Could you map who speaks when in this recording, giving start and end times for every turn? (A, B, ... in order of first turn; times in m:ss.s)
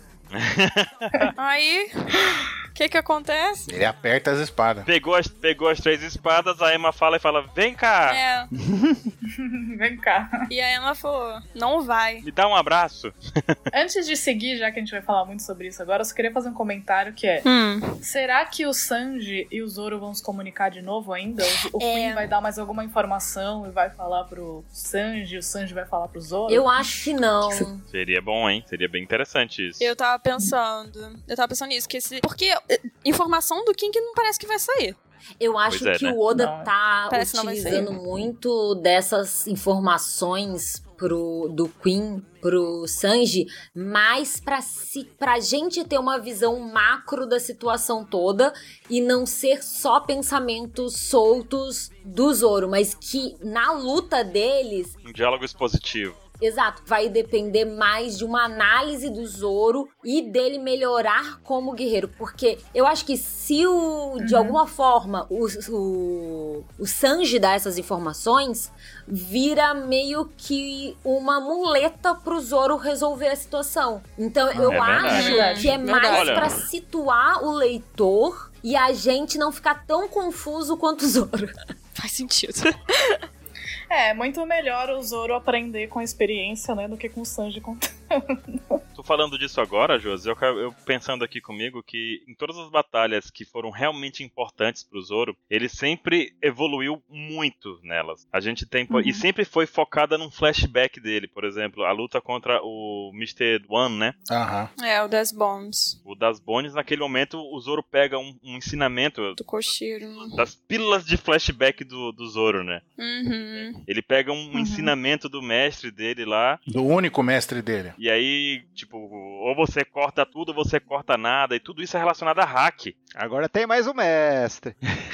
0:00.3-0:01.3 A
0:01.4-0:03.7 B
0:03.7-0:04.9 C
0:04.8-0:08.2 A
0:08.1-0:08.5 B
0:08.6-0:09.0 D
0:09.3-0:10.4 E
0:10.5-0:12.2 B
0:12.2-0:13.5 A
0:13.7-0:17.4 E
0:17.4-0:17.9 B
0:18.0-0:27.7 E
0:21.8-0:22.3 B
0:26.5-0:27.8 F
0:27.9-0:29.9 A
0:29.8-0:35.0 B
0:35.4-0:54.9 F
0:35.7-0:36.2 A
0:36.3-0:36.7 E
0:37.1-0:38.0 B
0:55.0-0:56.2 A
0:56.4-1:21.5 F
1:04.2-1:04.6 E
1:14.5-1:14.9 C
1:14.7-1:15.4 A
1:15.0-1:15.8 E
1:15.1-1:16.6 B
1:16.1-1:16.5 A
1:22.0-1:23.2 B
1:23.9-1:28.8 E
1:28.9-1:44.2 A
1:38.9-1:39.2 E
1:44.3-1:44.7 C
1:44.8-1:46.0 B
1:46.0-1:49.4 A
1:49.4-1:50.4 B
1:50.3-1:52.8 A
1:53.0-1:53.8 B
1:53.8-1:56.6 A
1:54.5-1:54.9 E
1:56.7-1:58.0 C
1:58.0-2:02.9 A
2:03.2-2:04.8 D